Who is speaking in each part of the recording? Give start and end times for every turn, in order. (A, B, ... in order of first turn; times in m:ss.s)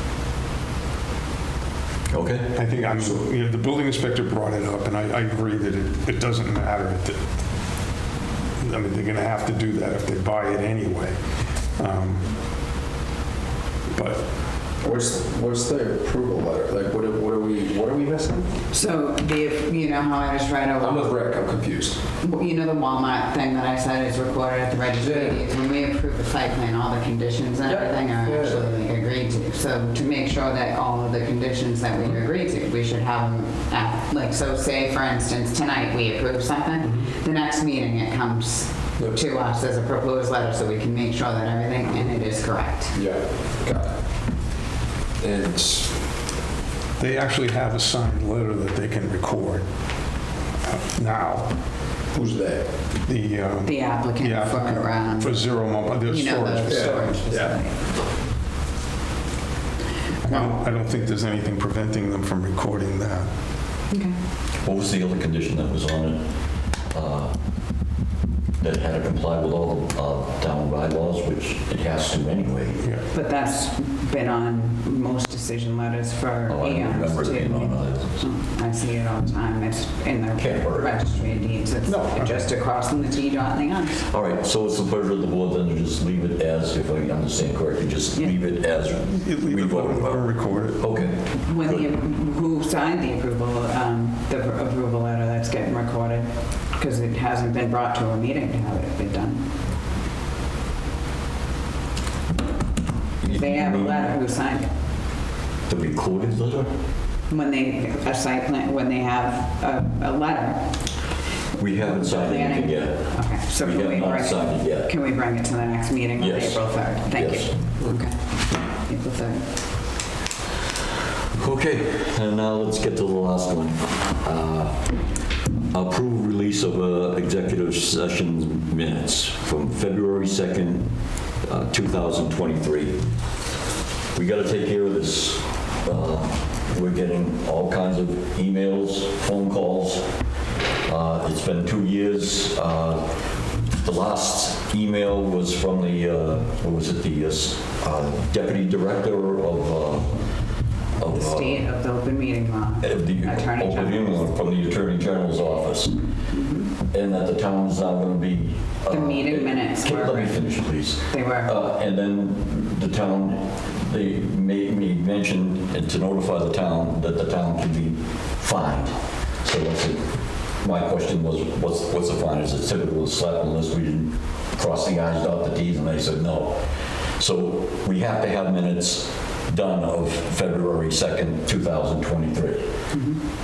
0:02.1-0:02.6 A
0:02.6-0:07.2 B
0:02.9-0:03.2 C
0:08.6-0:11.2 B
0:11.8-0:12.2 B
0:13.9-0:14.2 B
0:14.8-0:18.5 C
0:18.7-0:21.1 D
0:20.8-0:22.0 C
0:22.2-0:43.0 D
0:25.0-0:25.3 C
0:27.6-0:28.7 C
0:42.9-0:44.0 C
0:45.2-0:45.9 C
0:47.0-0:49.7 B
0:50.6-0:51.6 B
0:52.1-0:52.7 C
0:53.0-0:57.5 B
0:53.6-0:55.5 D
0:56.0-0:57.8 D
0:56.7-0:57.5 C
1:00.3-1:03.3 B
1:03.9-1:04.2 D
1:04.6-1:06.3 A
1:06.9-1:07.3 A
1:08.6-1:12.8 A
1:13.1-1:24.0 D
1:16.5-1:18.2 A
1:20.4-1:20.9 A
1:21.8-1:22.3 B
1:24.0-1:31.9 A
1:29.1-1:30.8 B
1:31.3-1:39.5 D
1:43.2-1:44.1 A
1:43.2-1:44.7 D
1:45.7-1:46.7 A
1:47.3-1:50.8 D
1:51.6-1:54.9 A
1:51.8-1:58.2 D
1:56.2-1:57.5 A
1:58.7-1:59.5 D
2:01.4-2:05.0 A
2:05.7-2:10.9 A
2:11.4-2:13.0 A
2:14.1-2:20.1 A
2:20.8-2:23.1 A
2:23.8-2:30.2 A
2:31.0-2:31.6 A
2:31.1-2:34.3 D
2:32.8-2:36.0 A
2:36.3-2:36.7 D
2:36.9-2:50.0 A
2:38.9-2:40.6 D
2:41.1-2:41.5 D
2:50.6-2:56.6 A
2:57.2-3:02.7 A
3:02.9-3:03.2 D